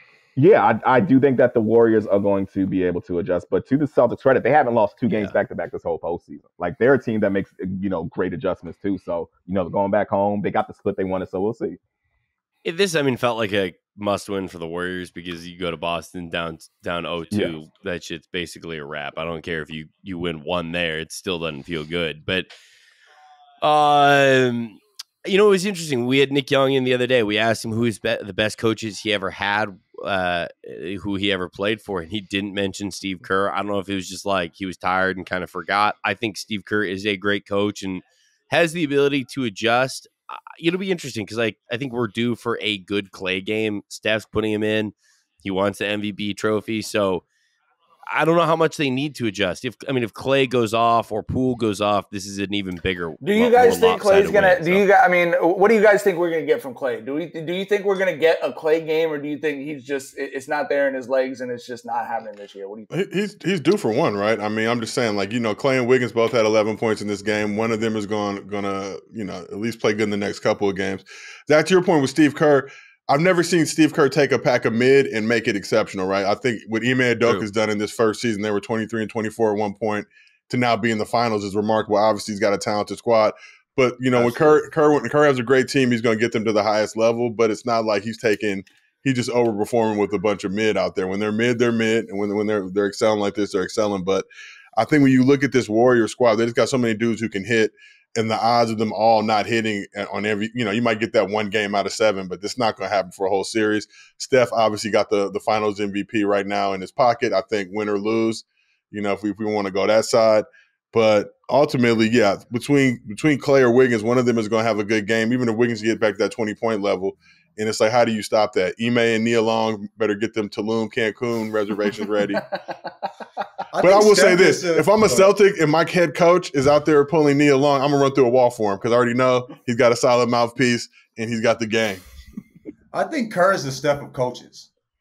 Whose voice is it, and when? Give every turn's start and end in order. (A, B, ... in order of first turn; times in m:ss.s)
0:00.4-0:11.8 A
0:05.1-0:05.4 B
0:12.6-0:22.5 B
0:23.6-0:47.2 B
0:48.1-0:54.8 B
0:53.2-1:02.9 C
1:02.9-2:02.5 D
1:24.2-1:24.6 B
2:03.7-2:05.4 E
2:03.8-2:12.0 D
2:12.9-2:14.7 E